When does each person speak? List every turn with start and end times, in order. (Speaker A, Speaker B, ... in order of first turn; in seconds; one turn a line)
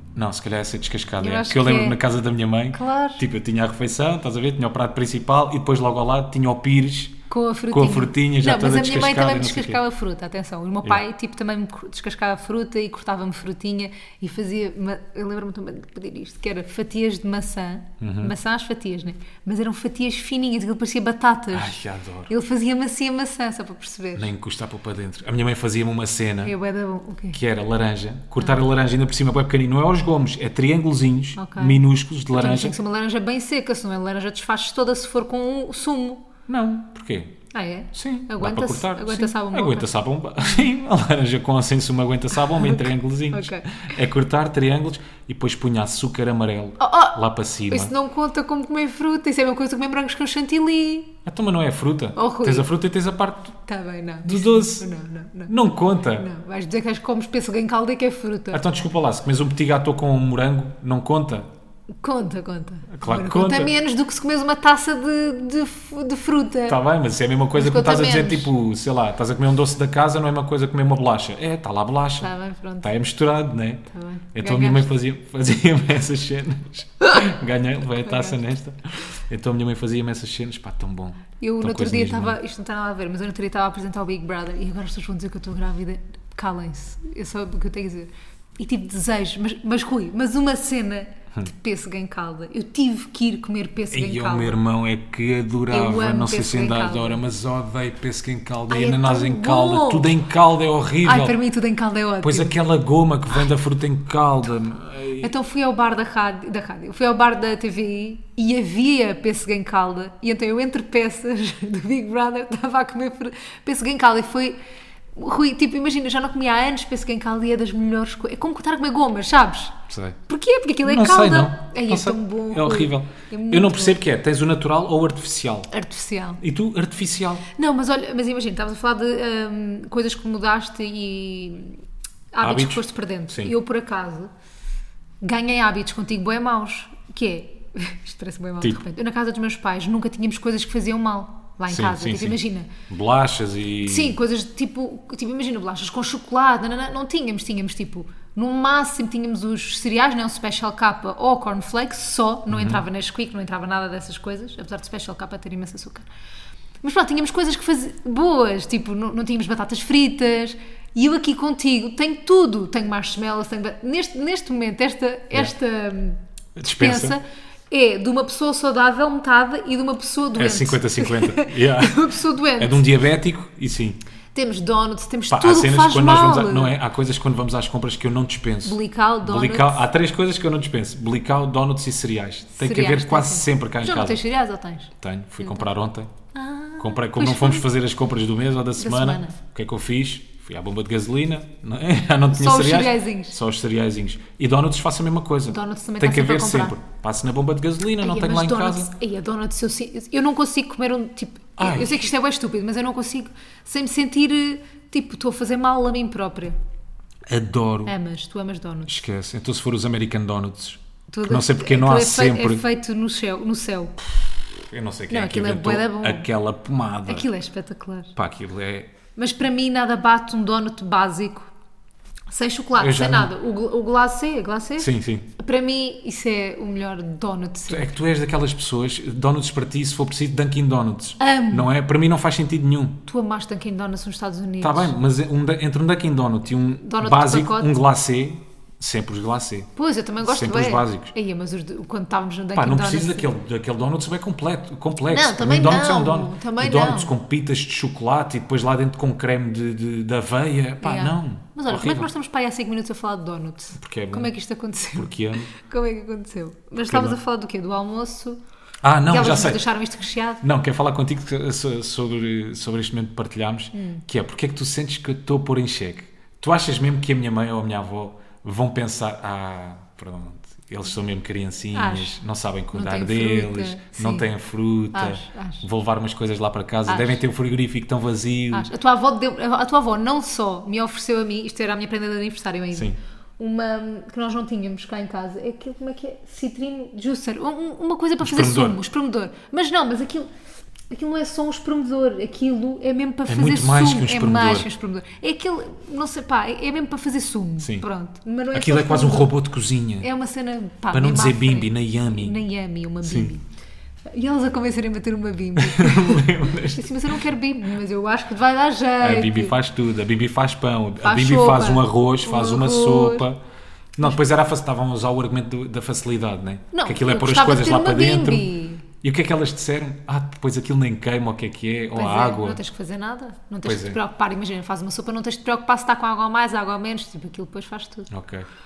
Speaker A: 0.1-7.2
Speaker B: 1.2-2.0
Speaker B: 2.7-3.2
Speaker B: 7.3-21.8
Speaker A: 7.7-9.8
Speaker A: 18.0-18.3
Speaker A: 21.5-22.3
Speaker B: 22.3-24.3
Speaker A: 24.1-26.5
Speaker B: 26.4-27.4
Speaker A: 27.3-32.8
Speaker B: 31.4-36.2
Speaker A: 36.5-37.3
Speaker B: 37.5-40.6
Speaker A: 37.9-47.9
Speaker B: 42.5-43.9
Speaker B: 46.8-51.1
Speaker A: 51.2-53.6
Speaker B: 52.1-52.7
Speaker B: 53.6-58.6
Speaker A: 54.2-54.9
Speaker A: 55.5-56.3
Speaker A: 58.5-61.5
Speaker B: 62.0-66.8
Speaker A: 62.9-63.7
Speaker A: 66.7-72.3
Speaker B: 67.5-68.5
Speaker B: 72.2-72.9
Speaker A: 72.8-82.4
Speaker B: 73.9-74.9
Speaker B: 78.0-78.4
Speaker B: 81.4-94.6
Speaker A: 93.9-101.4
Speaker B: 95.7-97.2
Speaker B: 98.7-100.2
Speaker B: 101.0-102.5
Speaker A: 102.2-105.3
Speaker B: 105.2-114.6
Speaker B: 115.2-124.0
Speaker A: 119.9-120.2
Speaker A: 120.8-125.7
Speaker B: 125.7-126.4
Speaker A: 126.4-127.4
Speaker B: 127.5-131.8
Speaker B: 132.3-134.3
Speaker A: 132.4-133.5
Speaker B: 135.2-142.7
Speaker A: 141.7-144.2
Speaker B: 143.8-156.1
Speaker A: 152.5-152.8
Speaker B: 156.8-172.8
Speaker A: 166.6-167.2
Speaker A: 170.3-172.0
Speaker A: 172.6-174.0
Speaker B: 174.3-176.8
Speaker A: 175.3-184.2
Speaker B: 178.6-179.8
Speaker B: 182.6-185.7
Speaker A: 185.0-186.1
Speaker B: 186.3-187.7
Speaker A: 186.8-198.9
Speaker B: 188.8-189.4
Speaker B: 192.3-193.4
Speaker B: 195.5-196.8
Speaker B: 198.0-206.6
Speaker A: 201.6-202.1
Speaker A: 207.3-207.9
Speaker B: 207.8-209.0
Speaker A: 208.9-212.6
Speaker B: 211.1-214.0
Speaker A: 214.5-217.3
Speaker B: 215.1-216.3
Speaker B: 217.1-218.1
Speaker A: 218.1-218.9
Speaker B: 219.2-221.5
Speaker B: 222.3-227.9
Speaker A: 222.8-223.3
Speaker A: 224.8-225.3
Speaker A: 227.7-233.0
Speaker B: 231.2-231.7
Speaker B: 233.1-235.0
Speaker A: 234.6-239.7
Speaker B: 236.8-237.8
Speaker B: 239.8-243.3
Speaker A: 240.2-241.1
Speaker A: 242.5-252.1
Speaker B: 245.1-247.1
Speaker B: 250.8-258.4
Speaker A: 253.8-254.3
Speaker A: 254.9-255.5
Speaker A: 256.9-257.2
Speaker A: 258.8-259.6
Speaker B: 259.1-260.4
Speaker A: 260.4-278.7
Speaker B: 263.7-264.0
Speaker B: 271.7-272.1
Speaker B: 272.7-274.3
Speaker B: 274.9-275.6
Speaker B: 276.9-277.2
Speaker B: 278.5-290.3
Speaker A: 288.2-288.8
Speaker B: 290.9-299.3
Speaker A: 293.3-294.7
Speaker A: 297.6-297.9
Speaker A: 298.5-300.1
Speaker B: 300.0-303.4
Speaker A: 300.9-302.4
Speaker A: 303.0-303.3
Speaker B: 304.1-309.5
Speaker A: 305.6-307.2
Speaker A: 309.0-313.4
Speaker B: 311.0-313.3
Speaker A: 313.9-318.5
Speaker B: 316.7-318.9
Speaker A: 319.0-322.6
Speaker B: 321.9-328.1
Speaker A: 323.6-324.0
Speaker A: 328.1-328.5